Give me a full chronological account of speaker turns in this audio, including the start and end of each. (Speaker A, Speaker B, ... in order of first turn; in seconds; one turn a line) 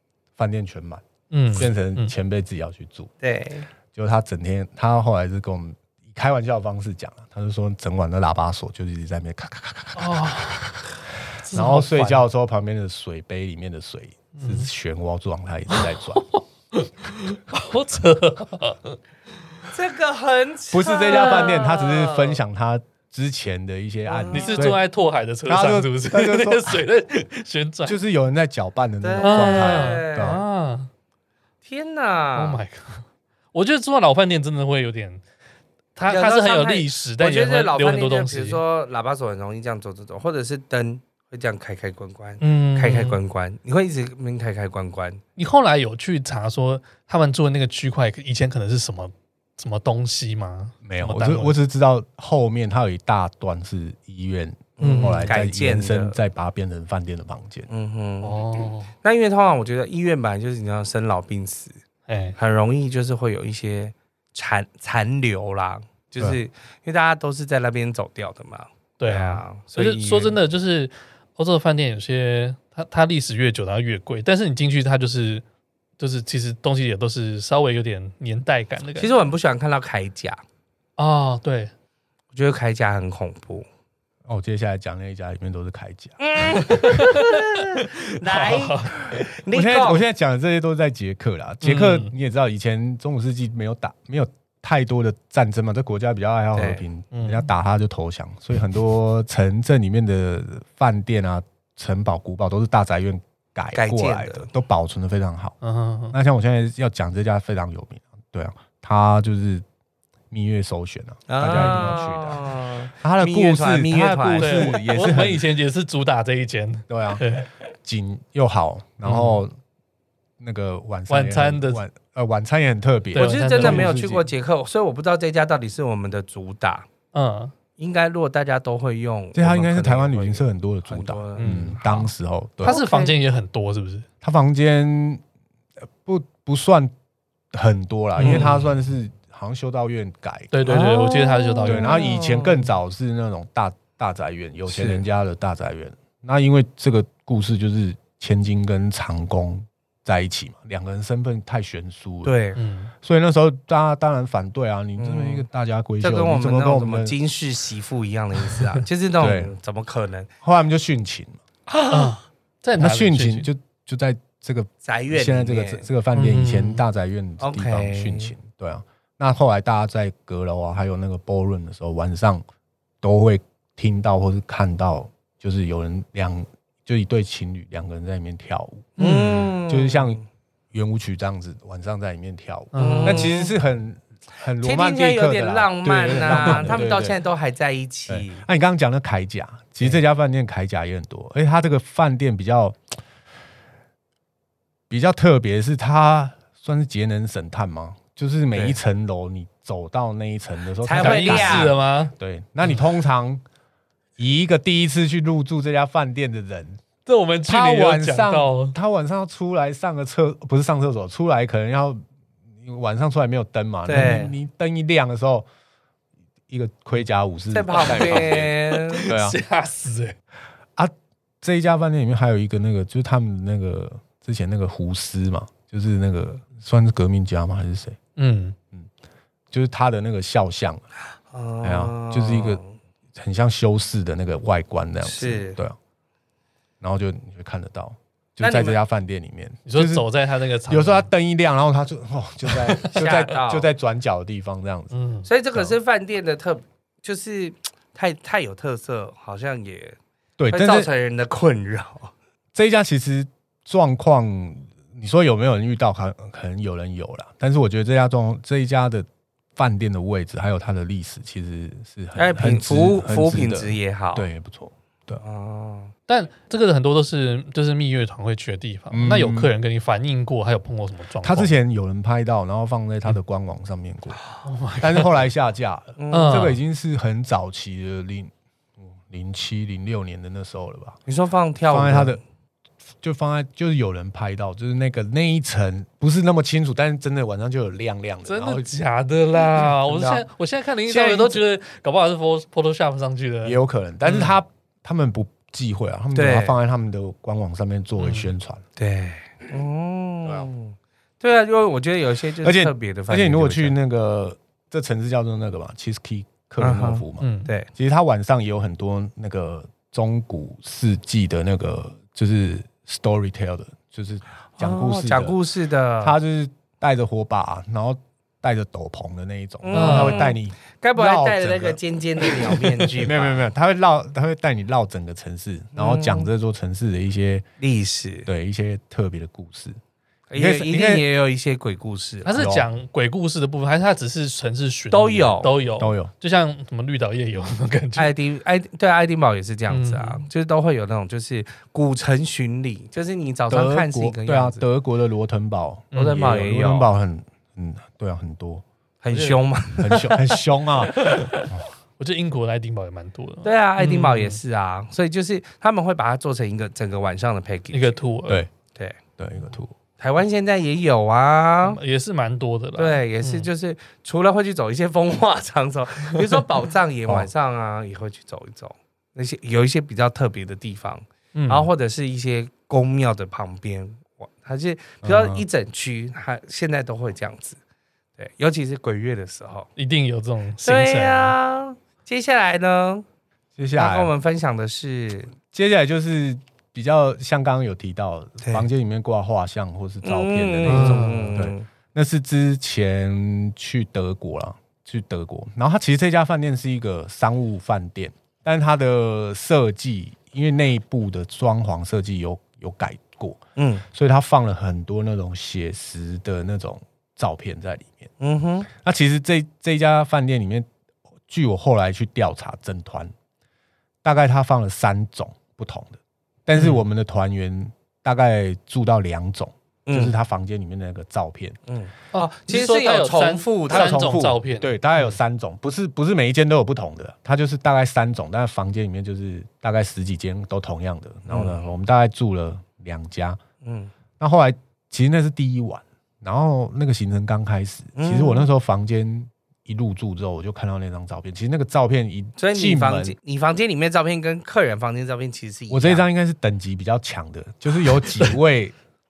Speaker A: 0.4-3.1
Speaker B: 1.3-2.1
Speaker C: 3.2-3.7
Speaker A: 3.9-10.6
Speaker B: 10.0-10.8
Speaker B: 11.4-12.2
Speaker A: 11.5-16.2
Speaker B: 14.3-14.7
Speaker B: 15.7-19.0
Speaker C: 19.7-22.4
Speaker A: 20.7-24.8
Speaker B: 21.1-21.5
Speaker C: 24.1-24.7
Speaker B: 24.3-28.0
Speaker A: 25.5-26.8
Speaker A: 27.9-30.4
Speaker C: 29.0-30.4
Speaker B: 29.2-30.9
Speaker C: 31.6-32.6
Speaker B: 32.4-35.2
Speaker B: 36.0-38.6
Speaker C: 36.1-45.2
Speaker B: 42.4-43.2
Speaker B: 45.4-51.6
Speaker A: 50.8-57.7
Speaker C: 54.8-56.2
Speaker B: 54.8-55.3
Speaker C: 57.7-58.4
Speaker B: 58.2-58.9
Speaker C: 59.0-61.8
Speaker B: 62.1-62.4
Speaker C: 62.4-70.4
Speaker B: 69.0-75.4
Speaker B: 76.0-79.1
Speaker C: 79.0-80.4
Speaker B: 81.0-81.7
Speaker C: 82.3-83.7
Speaker A: 84.3-86.2
Speaker C: 86.2-90.0
Speaker B: 86.5-89.2
Speaker A: 89.5-105.6
Speaker B: 91.6-92.1
Speaker C: 96.5-96.8
Speaker B: 97.1-97.5
Speaker C: 103.7-104.5
Speaker B: 105.6-106.2
Speaker A: 106.1-109.6
Speaker A: 110.3-115.4
Speaker C: 111.3-114.8
Speaker B: 111.5-111.9
Speaker B: 114.4-117.5
Speaker A: 116.9-117.3
Speaker A: 117.8-119.5
Speaker B: 119.0-119.4
Speaker A: 120.4-124.3
Speaker B: 121.1-121.8
Speaker B: 123.2-123.9
Speaker C: 123.2-126.9
Speaker B: 127.1-127.5
Speaker C: 127.8-132.0
Speaker A: 129.3-132.8
Speaker B: 131.4-131.8
Speaker B: 132.6-134.1
Speaker C: 132.6-133.2
Speaker A: 134.2-135.2
Speaker A: 136.0-136.9
Speaker A: 137.5-140.5
Speaker B: 138.2-138.7
Speaker C: 138.2-138.5
Speaker B: 140.5-142.1
Speaker C: 140.7-142.7
Speaker A: 141.7-152.3
Speaker C: 144.7-145.0
Speaker C: 152.2-152.6
Speaker B: 152.6-152.9
Speaker A: 153.0-157.2
Speaker C: 155.0-155.5
Speaker C: 156.0-160.3
Speaker A: 159.2-159.5
Speaker A: 160.4-161.4
Speaker C: 161.7-162.2
Speaker B: 161.9-163.5
Speaker A: 162.8-172.4
Speaker C: 164.8-165.9
Speaker B: 166.1-166.8
Speaker C: 167.4-168.3
Speaker A: 173.0-178.9
Speaker B: 179.0-179.5
Speaker C: 179.0-180.2
Speaker A: 179.7-180.2
Speaker A: 180.7-187.2
Speaker B: 182.7-183.3
Speaker C: 182.8-183.5
Speaker C: 184.6-188.4
Speaker B: 186.2-186.8
Speaker A: 188.1-192.8
Speaker A: 194.9-203.4
Speaker C: 198.5-198.8
Speaker C: 200.8-201.8
Speaker B: 200.9-202.1
Speaker A: 204.2-206.8
Speaker B: 207.1-208.8
Speaker A: 207.5-212.0
Speaker A: 212.6-215.5
Speaker C: 213.9-214.3
Speaker A: 216.5-218.5
Speaker C: 217.5-219.1
Speaker B: 217.8-220.2
Speaker A: 219.1-219.4
Speaker A: 220.8-228.0
Speaker B: 228.2-228.6
Speaker A: 229.5-230.8
Speaker C: 231.3-232.7
Speaker A: 231.6-232.6
Speaker A: 233.2-235.8
Speaker C: 235.0-235.6
Speaker A: 236.8-240.1
Speaker C: 238.4-238.8
Speaker B: 239.7-241.1
Speaker A: 240.7-244.9
Speaker B: 242.5-242.9
Speaker C: 242.8-243.7
Speaker B: 244.9-245.3
Speaker C: 245.3-250.0
Speaker A: 250.4-250.9
Speaker C: 250.5-252.1
Speaker A: 252.5-265.2
Speaker C: 262.2-264.3
Speaker C: 265.2-265.9
Speaker B: 266.1-271.5
Speaker A: 268.9-269.5
Speaker A: 271.2-274.2
Speaker B: 274.4-275.2
Speaker A: 274.8-281.0
Speaker C: 276.0-276.6
Speaker B: 276.1-276.6
Speaker C: 281.1-282.2
Speaker A: 281.7-282.2
Speaker A: 283.0-288.7
Speaker B: 288.3-294.3
Speaker A: 289.6-290.3
Speaker A: 290.9-291.3
Speaker A: 293.4-298.6
Speaker C: 296.1-296.6
Speaker B: 298.0-298.3
Speaker C: 298.8-303.8
Speaker A: 302.4-315.4
Speaker C: 306.6-307.7
Speaker B: 307.2-307.5
Speaker C: 314.6-316.2
Speaker A: 316.0-327.4
Speaker C: 319.6-323.4
Speaker B: 319.7-320.2
Speaker C: 325.8-326.3
Speaker C: 327.6-328.3
Speaker A: 328.3-329.8
Speaker C: 330.3-332.4
Speaker A: 330.4-331.1
Speaker B: 332.2-338.1
Speaker A: 332.4-332.7
Speaker C: 334.9-335.5
Speaker A: 335.8-336.1
Speaker C: 338.0-344.6
Speaker B: 339.7-340.3
Speaker A: 343.5-348.6
Speaker C: 345.9-346.9
Speaker B: 345.9-346.2
Speaker C: 349.0-350.4
Speaker B: 349.1-349.4
Speaker A: 349.8-351.7
Speaker B: 350.8-354.4
Speaker C: 353.4-358.0
Speaker B: 357.7-358.5
Speaker A: 359.2-359.7
Speaker C: 360.0-361.8
Speaker B: 361.6-363.5
Speaker C: 362.8-377.6
Speaker B: 371.4-371.7
Speaker A: 375.0-375.4
Speaker C: 378.2-379.7
Speaker B: 379.8-381.4
Speaker C: 380.6-383.1
Speaker A: 383.6-384.1
Speaker C: 383.8-385.3
Speaker A: 385.5-408.1
Speaker C: 388.4-388.7
Speaker C: 390.0-391.6
Speaker B: 390.7-391.4
Speaker C: 403.6-403.9
Speaker C: 408.2-408.7
Speaker A: 408.8-410.7
Speaker A: 411.3-413.1
Speaker A: 414.0-421.6
Speaker B: 416.6-416.8
Speaker C: 419.9-420.1
Speaker C: 421.7-424.1
Speaker B: 422.1-424.7
Speaker A: 423.7-433.4
Speaker C: 431.3-431.6
Speaker C: 433.6-433.9
Speaker A: 434.2-443.2
Speaker C: 437.9-438.5
Speaker C: 442.4-446.1
Speaker A: 445.7-448.8